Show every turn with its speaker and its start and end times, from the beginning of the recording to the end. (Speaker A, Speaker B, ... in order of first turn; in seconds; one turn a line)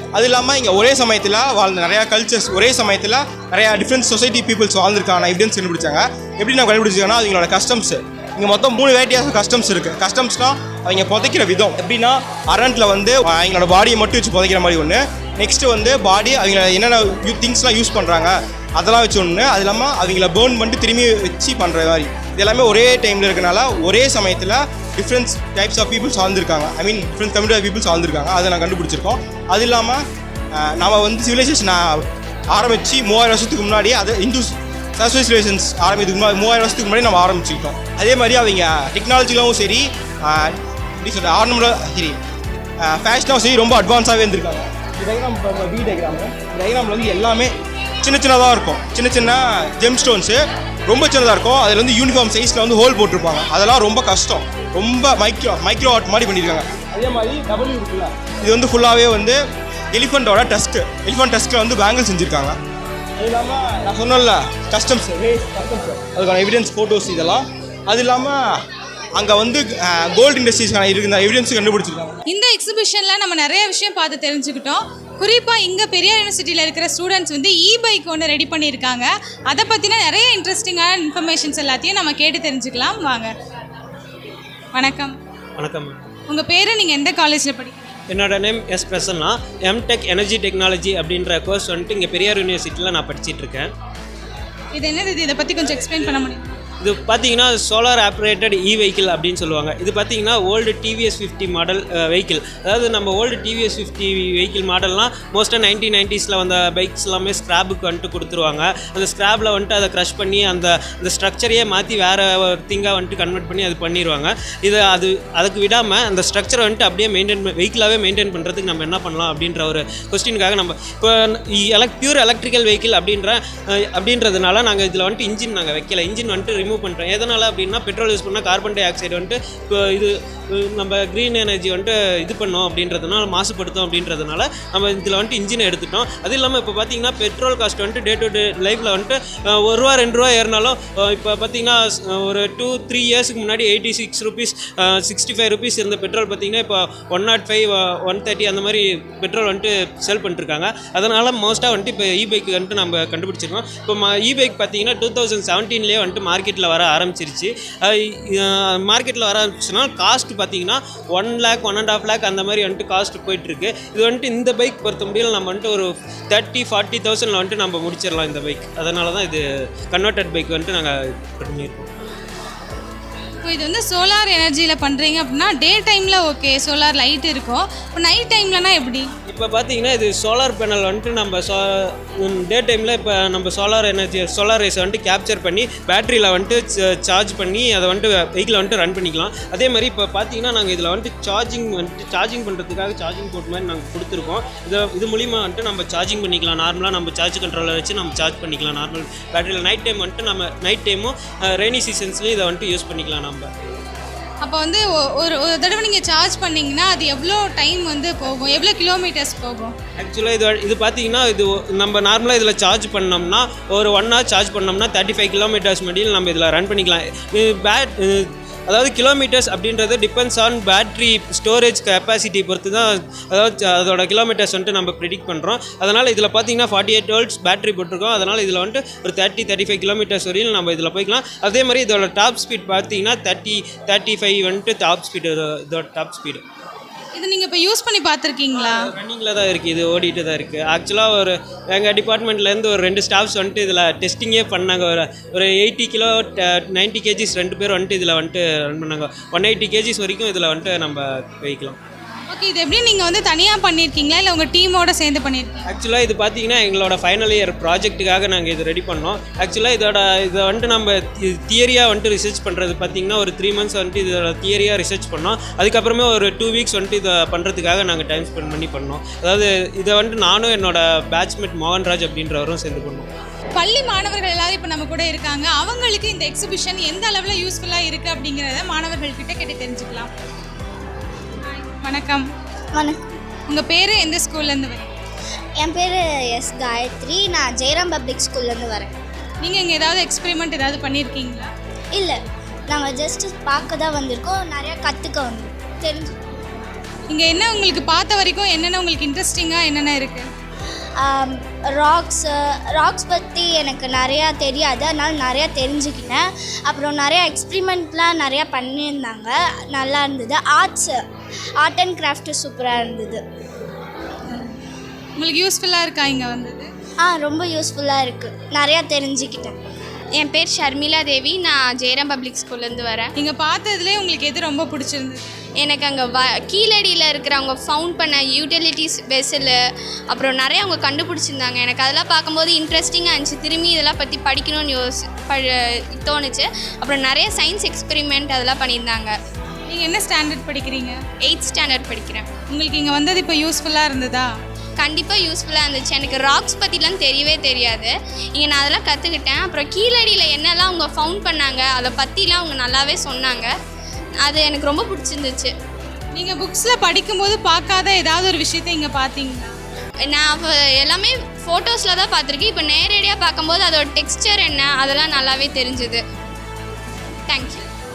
Speaker A: 0.1-30.0
Speaker A: 30.5-42.2
Speaker A: 42.8-47.5
Speaker A: 48.0-59.4
Speaker A: 59.9-62.6
Speaker A: 63.2-68.4
Speaker A: 69.2-72.2
Speaker B: 72.3-83.3
Speaker B: 84.7-85.2
Speaker C: 85.6-86.0
Speaker B: 86.3-88.0
Speaker C: 88.1-93.7
Speaker B: 94.7-96.6
Speaker C: 96.8-123.4
Speaker C: 123.9-171.9
Speaker B: 173.4-179.1
Speaker C: 179.3-203.5
Speaker B: 204.4-209.7
Speaker C: 210.0-236.4
Speaker B: 237.2-238.9
Speaker C: 238.5-251.8
Speaker B: 252.3-255.7
Speaker C: 255.7-273.1
Speaker B: 273.6-280.1
Speaker B: 281.5-282.3
Speaker B: 283.5-284.9
Speaker D: 285.6-288.9
Speaker B: 289.4-291.5
Speaker D: 292.7-296.2
Speaker B: 297.1-300.3
Speaker D: 301.0-311.0
Speaker D: 311.6-313.2
Speaker B: 315.2-316.7
Speaker D: 317.0-319.6
Speaker E: 320.1-323.1
Speaker B: 323.2-325.3
Speaker E: 325.6-329.6
Speaker E: 330.1-339.1
Speaker B: 339.7-341.0
Speaker E: 341.2-342.3
Speaker B: 342.5-344.3
Speaker E: 344.8-353.5
Speaker E: 354.2-355.5
Speaker B: 356.1-359.5
Speaker E: 360.1-366.0
Speaker E: 367.3-367.7